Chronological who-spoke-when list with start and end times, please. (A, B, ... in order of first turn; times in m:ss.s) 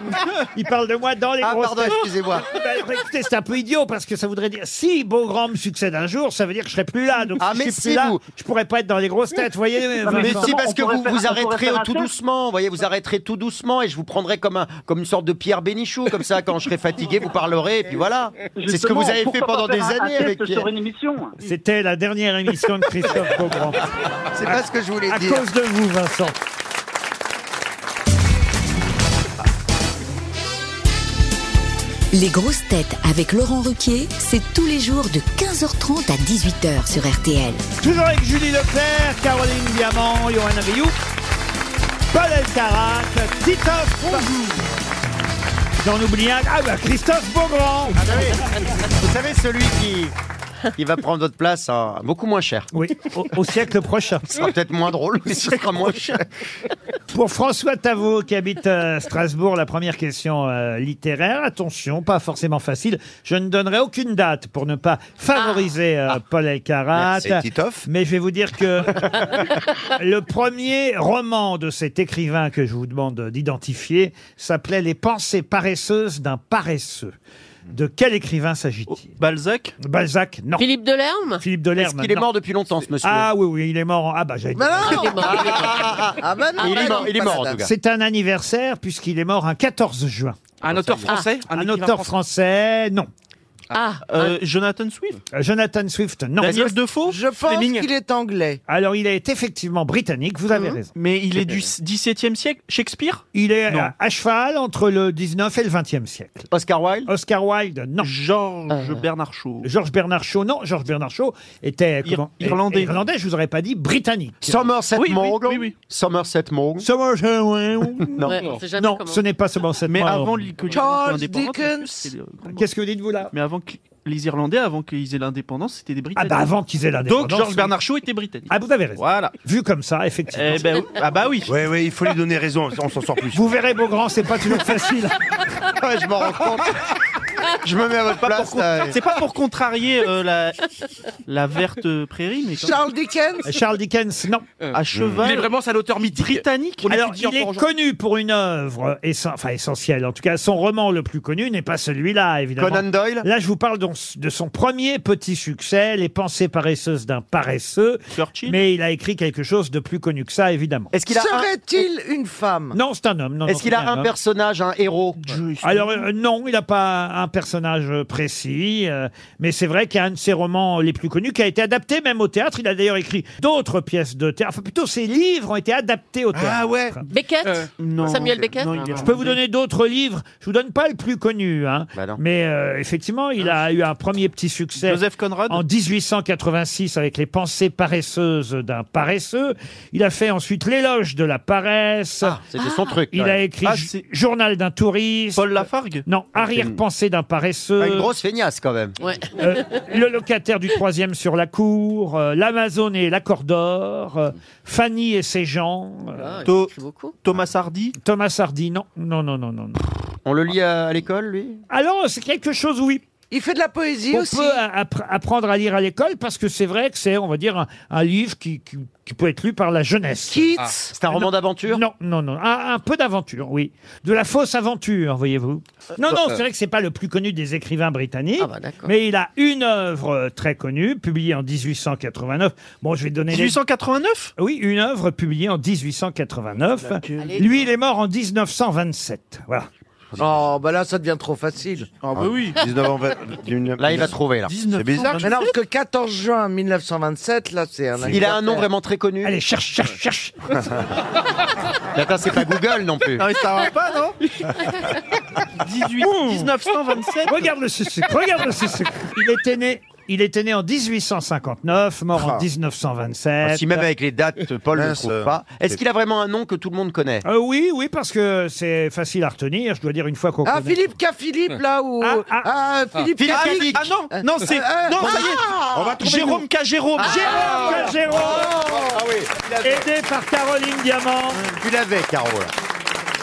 0:00.5-0:10.6 A
0:01.4-0:02.5 B
0:07.4-0:08.2 B
0:10.0-0:12.1 C
0:10.1-0:20.7 B
0:18.6-0:21.4 C
0:21.4-0:23.9 A
0:24.3-0:25.5 B
0:24.5-0:26.4 A
0:32.1-0:37.6 D
0:37.8-0:41.0 A
0:42.1-0:44.3 A
0:45.8-0:48.0 A
0:48.0-0:50.1 B
0:50.8-0:52.7 B
0:52.7-0:54.4 A
0:54.3-0:56.2 B
0:57.1-1:09.4 A
1:05.4-1:05.7 E
1:07.0-1:07.9 F
1:09.9-1:17.1 A
1:17.7-1:19.1 A
1:19.0-1:19.8 G
1:19.8-1:20.7 A
1:20.6-1:21.4 E
1:21.4-1:22.3 A
1:21.8-1:23.3 B
1:23.0-1:25.3 A
1:24.6-1:27.6 H
1:24.8-1:25.8 E
1:25.2-1:27.7 B
1:27.6-1:30.4 A
1:30.6-1:32.1 I
1:31.5-1:33.1 A
1:33.7-1:34.3 E
1:34.1-1:35.2 G
1:35.3-1:36.7 A
1:36.4-1:37.3 G
1:37.0-1:38.6 H
1:37.5-1:37.8 I
1:38.7-1:40.9 A
1:40.5-1:40.8 E
1:41.0-1:43.9 G
1:43.3-1:46.5 A
1:46.5-1:47.1 B
1:47.1-1:48.1 A
1:48.0-1:49.7 G
1:48.7-1:49.0 E
1:49.6-1:54.6 A
1:52.1-1:53.0 G
1:54.4-1:56.9 B
1:55.0-1:55.7 G
1:56.8-2:00.5 A
1:58.1-1:58.4 B
1:58.2-1:59.2 E
1:59.9-2:02.7 G
2:00.7-2:02.1 H
2:02.5-2:03.3 A
2:03.3-2:06.5 G
2:06.2-2:07.7 A
2:07.1-2:09.3 G
2:08.5-2:10.8 A
2:10.3-2:11.5 G
2:11.5-2:13.5 F
2:13.3-2:15.2 A
2:15.8-2:16.8 B
2:17.6-2:19.0 B
2:18.2-2:20.7 G
2:21.3-2:22.8 G
2:22.6-2:23.5 H
2:23.4-2:24.4 A
2:24.6-2:27.7 I
2:24.7-2:25.5 G
2:24.9-2:25.4 F
2:26.0-2:26.9 G
2:26.9-2:40.9 A
2:32.6-2:33.3 B
2:38.1-2:38.6 G
2:40.9-2:41.5 B
2:41.1-2:42.8 H
2:42.7-2:44.1 A
2:43.5-2:45.4 B
2:45.3-2:46.0 G
2:45.6-2:57.0 A
2:56.3-2:57.0 F
2:57.1-2:58.8 E
2:57.8-2:59.4 G
2:58.1-2:58.6 F
2:59.0-3:12.4 A
3:01.9-3:02.2 B
3:04.8-3:05.6 G
3:12.2-3:13.4 B
3:13.1-3:18.1 A
3:13.6-3:14.0 G
3:15.4-3:16.0 G
3:16.4-3:16.8 B
3:17.8-3:19.0 B
3:19.0-3:19.8 E
3:19.4-3:26.4 A
3:26.2-3:27.2 E
3:26.4-3:28.0 G
3:28.0-3:29.8 A
3:30.2-3:31.6 B
3:31.7-3:33.0 A
3:33.3-3:34.6 H
3:34.1-3:40.6 A
3:40.3-3:41.0 H
3:40.9-3:41.8 B
3:41.1-3:53.6 A
3:48.4-3:48.9 E
3:53.3-3:54.3 G
3:54.4-3:59.7 A
3:56.9-3:57.4 G
3:57.2-3:57.4 E
4:00.2-4:02.0 H
4:02.0-4:02.6 G
4:02.1-4:04.2 F
4:03.8-4:04.5 B
4:04.5-4:05.5 G
4:04.7-4:05.3 F
4:05.2-4:08.7 H
4:08.1-4:09.4 B
4:09.2-4:10.4 A
4:11.9-4:13.3 B
4:13.2-4:14.2 G
4:15.5-4:17.5 G
4:16.0-4:16.5 A
4:17.3-4:23.9 A
4:22.2-4:22.4 F
4:23.4-4:27.2 B
4:24.7-4:25.8 F
4:27.2-4:30.8 A
4:30.4-4:35.9 H
4:32.0-4:32.5 A
4:33.2-4:33.8 B
4:33.2-4:35.5 G
4:35.7-4:36.5 F
4:36.0-4:37.7 G
4:37.0-4:39.0 H
4:37.1-4:38.6 A
4:38.9-4:39.3 B
4:39.4-4:39.8 F
4:39.6-4:41.5 A
4:41.6-4:42.5 B